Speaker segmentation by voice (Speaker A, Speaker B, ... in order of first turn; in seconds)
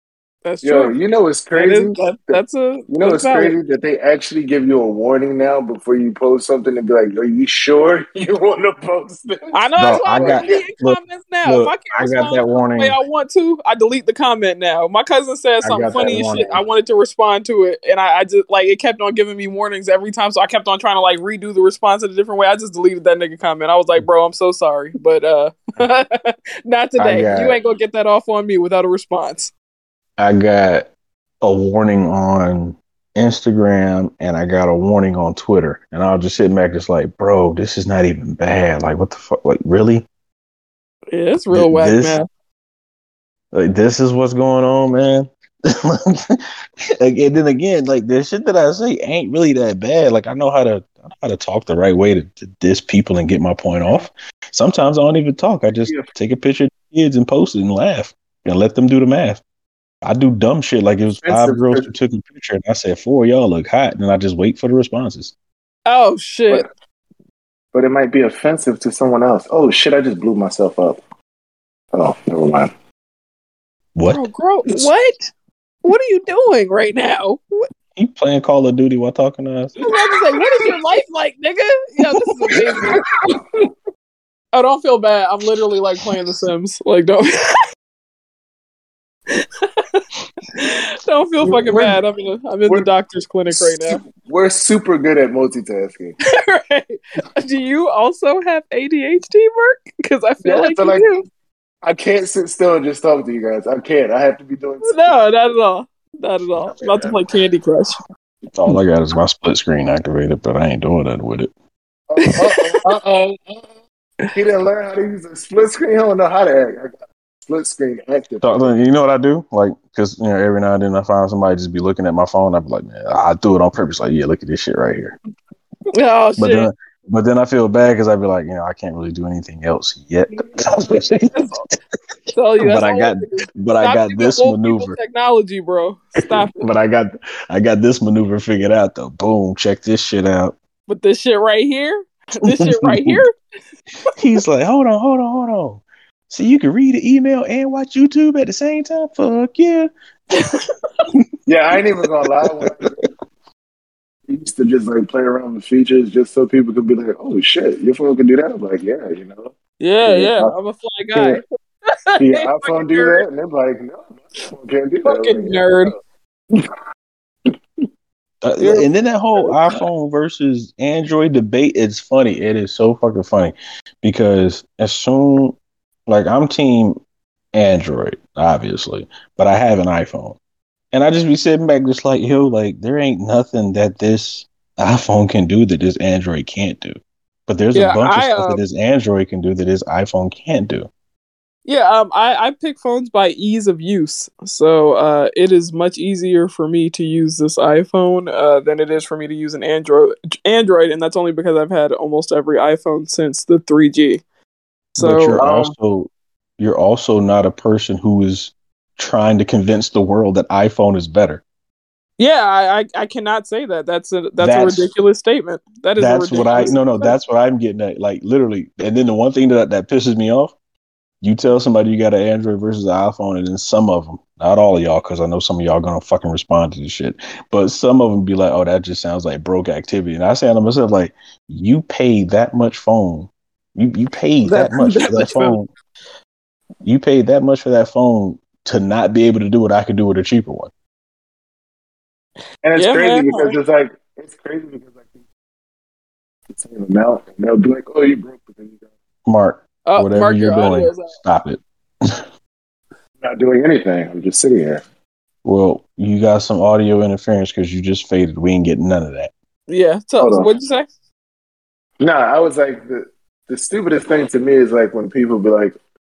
Speaker A: 0.5-0.9, 1.5-3.5, 9.5-29.5, 41.1-42.3, 65.9-66.7, 74.1-75.2, 75.8-77.7, 79.8-83.0, 84.5-87.6, 89.3-90.0, 90.5-94.0, 96.3-101.2, 104.8-108.0, 112.3-112.9, 125.9-126.7, 131.3-131.6, 132.3-136.6, 140.9-143.3, 159.8-163.2, 165.1-165.9, 187.8-188.6, 191.7-204.2, 205.0-205.4, 212.2-217.2, 234.5-235.6, 242.8-243.5, 249.9-251.2, 259.7-260.9
Speaker B: 0.6-9.6, 10.2-10.6, 61.2-61.9, 67.7-71.0, 71.9-72.7, 82.5-83.7, 91.4-92.0, 93.5-96.2, 100.4-101.1, 101.8-105.2, 106.6-107.2, 112.1-113.7, 114.3-118.7, 151.5-152.9, 154.3-159.5, 160.0-160.5, 161.1-161.4, 162.2-165.9, 168.6-168.9, 205.4-205.8, 242.6-245.0, 246.5-248.8, 253.2-254.8, 260.2-260.5, 262.0-265.7
Speaker C: 9.8-13.0, 15.6-16.6, 27.0-27.6, 30.2-30.9, 31.4-40.1, 41.5-42.2, 43.5-46.4, 47.0-59.4, 60.0-65.3, 74.0-74.2, 78.0-79.8, 108.5-111.5, 118.4-125.2, 126.4-131.3, 132.6-135.0, 136.2-140.6, 142.4-143.2, 144.2-149.9, 152.5-152.9, 168.4-177.0, 177.5-180.4, 180.9-190.9, 205.0-211.4, 214.4-214.9, 216.0-220.5, 221.2-235.7, 236.8-240.7, 249.3-252.2, 255.4-259.3